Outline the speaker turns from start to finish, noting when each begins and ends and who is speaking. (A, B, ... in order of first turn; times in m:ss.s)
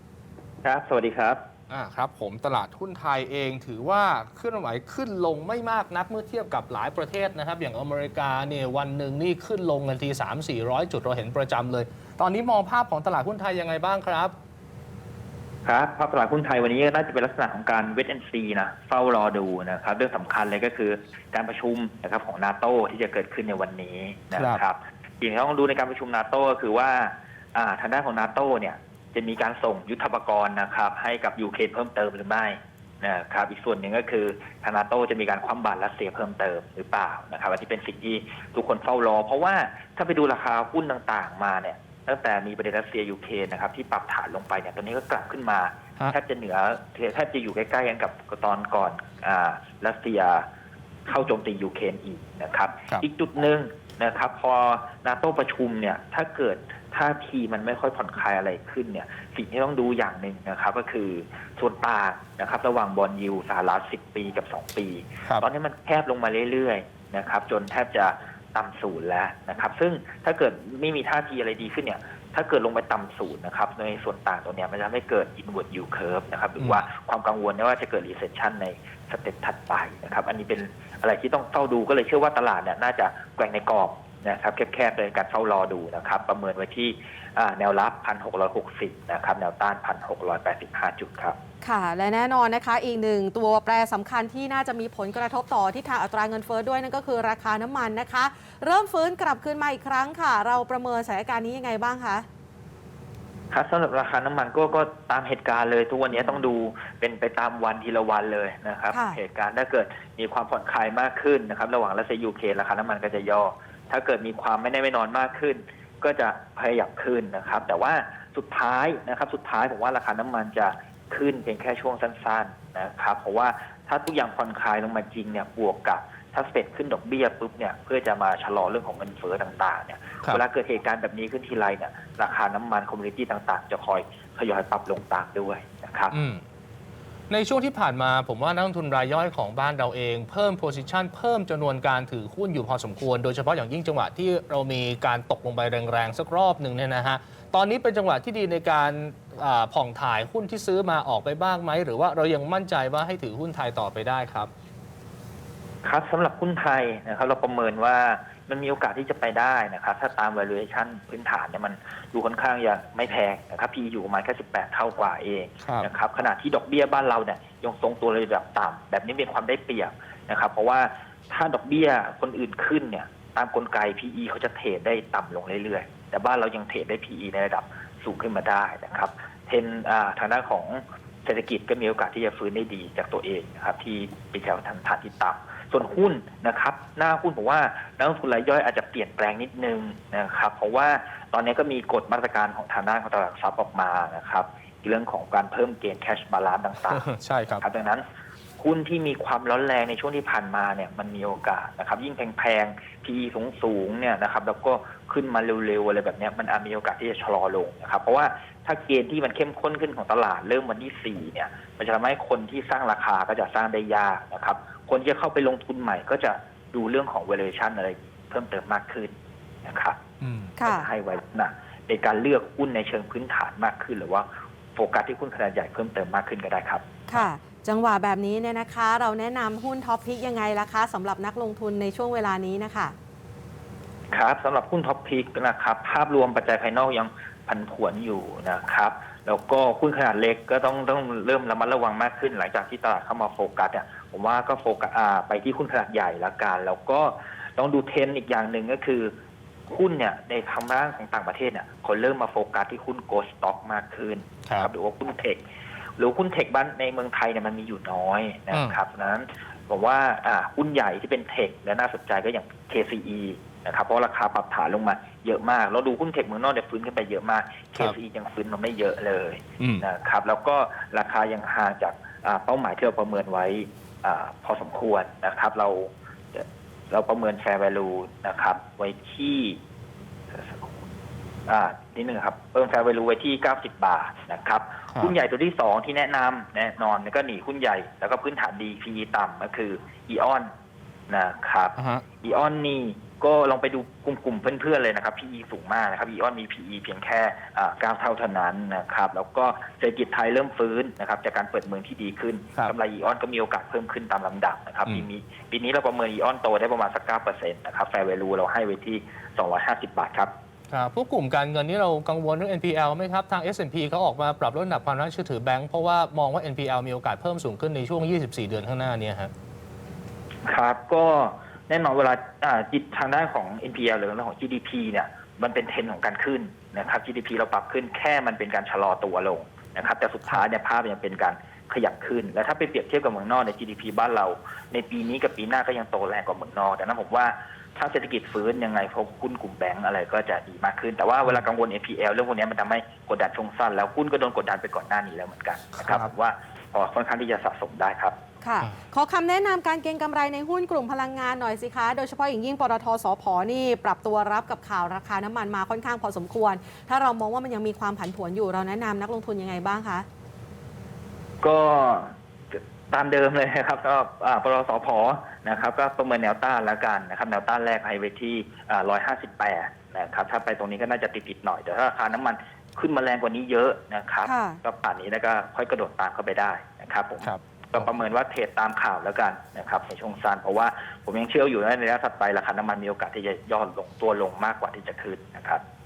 0:00.6-0:01.4 A
0:01.7-0:14.3 B
0:15.6-0:50.4 A
0:24.3-0:24.6 B
0:51.0-1:31.4 A
1:16.6-1:16.8 B
1:31.6-1:42.2 C
1:43.5-2:16.2 A
1:48.9-1:49.2 C
2:16.1-2:16.4 B
2:17.3-2:34.5 B
2:35.8-3:17.0 A
2:45.6-2:45.9 B
3:16.9-3:17.6 B
3:17.6-3:18.0 A
3:18.6-3:40.0 A
3:40.2-3:40.6 B
3:40.6-3:40.9 C
3:40.6-3:46.9 A
3:47.1-3:53.0 C
3:54.1-4:09.1 A
4:09.7-4:15.4 A
4:14.5-4:14.7 B
4:16.0-4:39.6 A
4:18.5-4:18.8 B
4:29.6-4:29.8 B
4:40.3-4:40.8 A
4:41.5-4:50.5 A
4:51.1-5:10.3 A
4:51.8-4:52.0 B
5:10.7-5:19.3 B
5:20.4-5:48.1 A
5:45.8-5:46.1 B
5:48.4-6:00.1 C
6:01.4-6:25.6 A
6:14.2-6:14.6 C
6:17.2-6:17.9 B